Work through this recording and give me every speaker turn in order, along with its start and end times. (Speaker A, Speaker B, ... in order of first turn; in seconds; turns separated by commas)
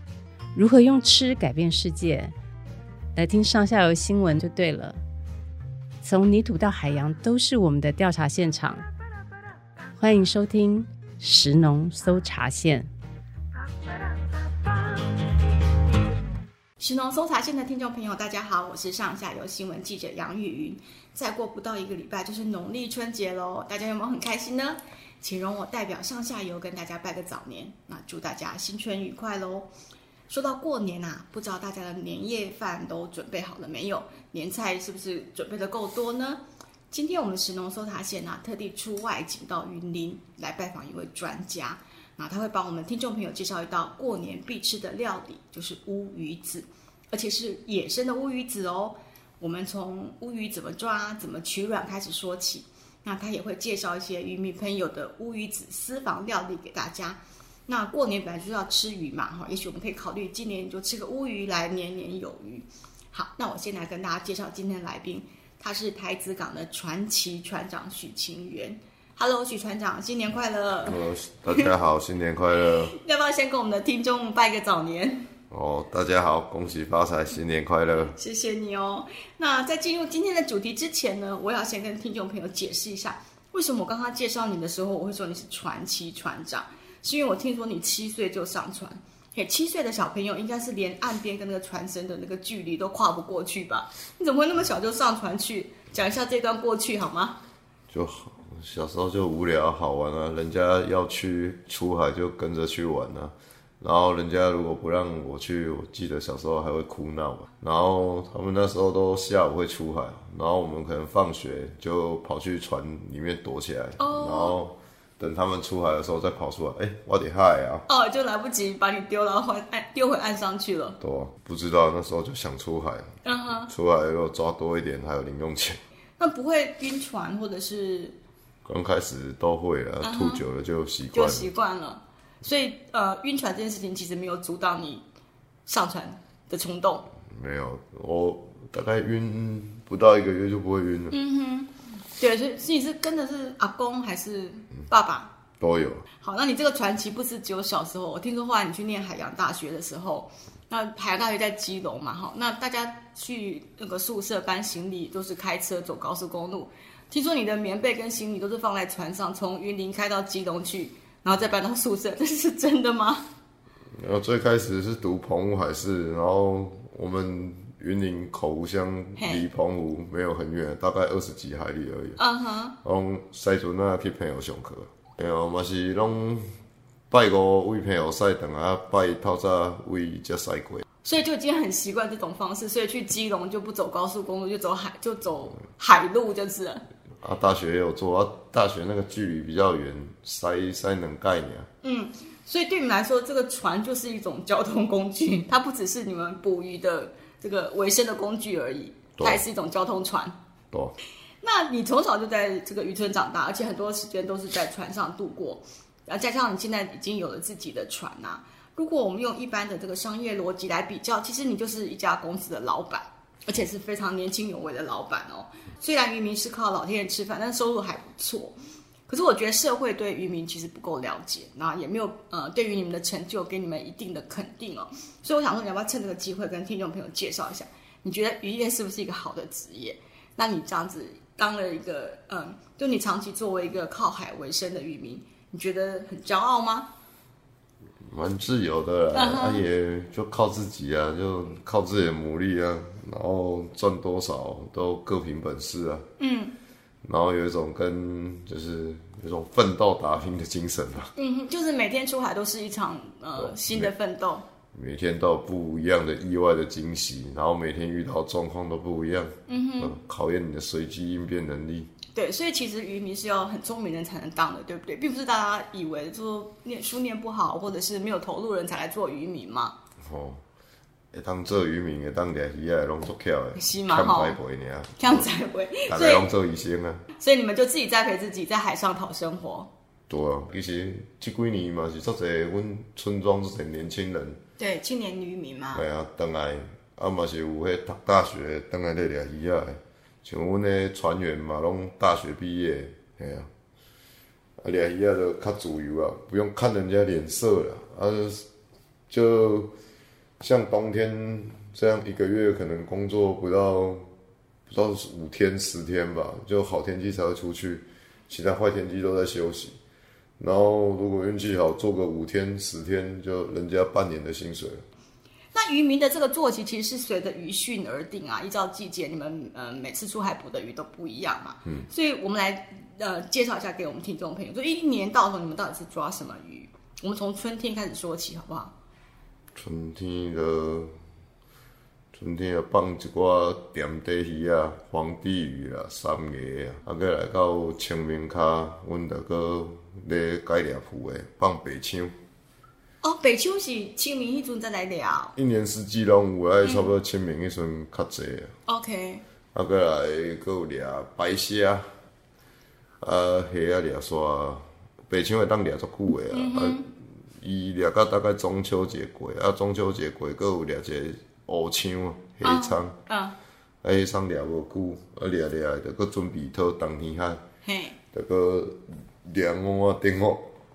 Speaker A: 0.5-2.3, Speaker A: 3.1-5.0, Speaker A: 6.0-8.8, Speaker A: 9.9-12.9, Speaker B: 16.8-29.7, Speaker B: 30.3-71.0, Speaker C: 70.8-72.9, Speaker B: 72.7-75.2, Speaker C: 75.5-78.2, Speaker B: 78.0-97.4, Speaker C: 97.9-117.8, Speaker B: 114.0-114.6, Speaker B: 117.9-121.0, Speaker C: 121.0-123.1, Speaker B: 123.2-123.7, Speaker C: 123.7-125.8, Speaker B: 126.2-128.2, Speaker C: 128.6-131.5, Speaker B: 130.0-130.4, Speaker B: 131.1-135.0, Speaker B: 135.7-137.1, Speaker C: 137.3-141.2, Speaker B: 141.1-145.3, Speaker C: 145.6-146.0, Speaker B: 146.2-163.2, Speaker C: 164.0-172.2, Speaker B: 169.2-169.4, Speaker B: 172.2-172.7, Speaker C: 172.8-176.4, Speaker C: 177.1-180.8, Speaker B: 181.0-186.8, Speaker C: 187.2-191.7, Speaker B: 191.8-200.3, Speaker C: 199.2-199.4, Speaker B: 201.4-218.5, Speaker B: 219.1-236.9, Speaker C: 238.0-246.1, Speaker B: 239.1-239.6, Speaker B: 246.2-246.5, Speaker C: 247.0-251.1, Speaker B: 251.2-254.4, Speaker C: 253.4-253.9, Speaker C: 254.7-261.9, Speaker B: 259.5-259.9, Speaker B: 262.1-269.7, Speaker C: 270.0-270.4, Speaker C: 271.1-275.3, Speaker B: 273.6-274.4, Speaker B: 275.0-276.3, Speaker C: 275.9-277.0, Speaker B: 277.2-279.7, Speaker C: 280.1-284.4, Speaker B: 284.6-285.8, Speaker C: 285.7-293.5, Speaker C: 294.6-298.4, Speaker C: 299.1-299.7, Speaker C: 300.4-304.1, Speaker C: 304.7-309.8, Speaker C: 310.4-314.8, Speaker B: 315.5-328.7, Speaker C: 329.5-330.9, Speaker C: 332.1-342.1, Speaker B: 343.0-345.3, Speaker C: 345.4-348.5, Speaker B: 346.6-346.9, Speaker B: 348.7-349.2, Speaker C: 349.5-351.9, Speaker C: 353.0-356.8, Speaker B: 356.3-356.9, Speaker C: 357.4-362.9, Speaker B: 362.4-363.4, Speaker C: 363.8-367.4, Speaker B: 367.6-368.0, Speaker C: 368.1-370.5